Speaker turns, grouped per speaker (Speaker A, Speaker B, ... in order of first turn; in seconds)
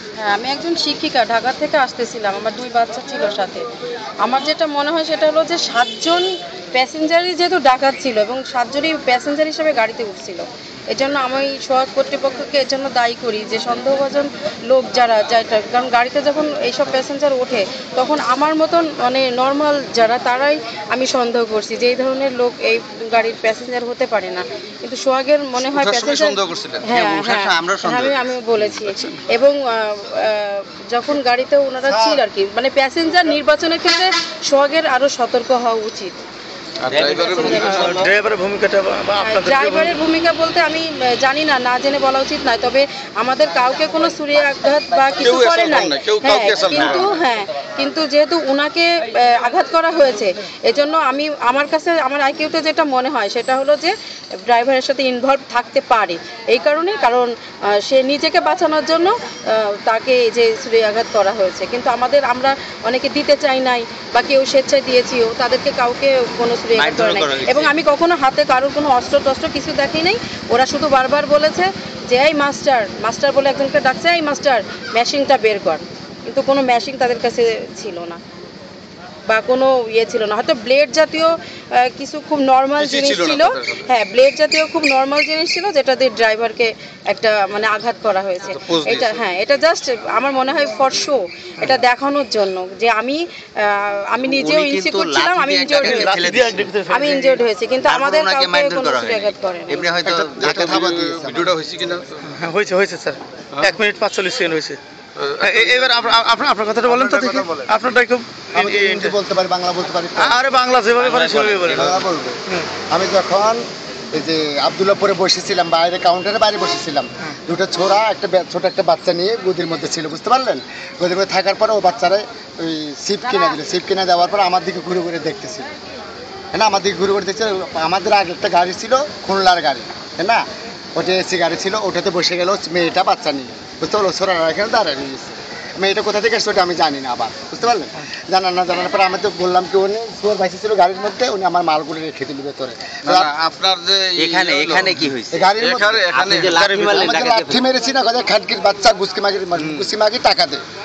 Speaker A: 0.2-3.6, 4.2-36.1, 37.0-38.0, 39.2-78.2, 79.3-96.2, 96.9-99.9
Speaker B: 25.6-26.9, 36.8-37.9, 45.2-47.2, 82.8-83.9, 88.7-89.2, 100.6-102.3, 105.2-106.2, 106.9-107.7, 143.0-145.0, 145.5-147.0, 149.6-149.9
Speaker C: 26.9-28.8, 31.9-32.2, 36.9-38.1, 46.7-47.0, 66.7-67.7, 94.2-96.7, 97.8-100.8, 111.0-112.0, 144.2-145.5, 146.1-147.6
Speaker D: 37.6-40.0, 95.8-97.4, 102.2-104.8, 105.4-109.1, 110.2-111.9
Speaker E: 100.0-101.5, 108.5-110.5, 111.3-125.7, 126.5-130.4, 130.9-143.3, 145.3-146.1, 146.8-150.6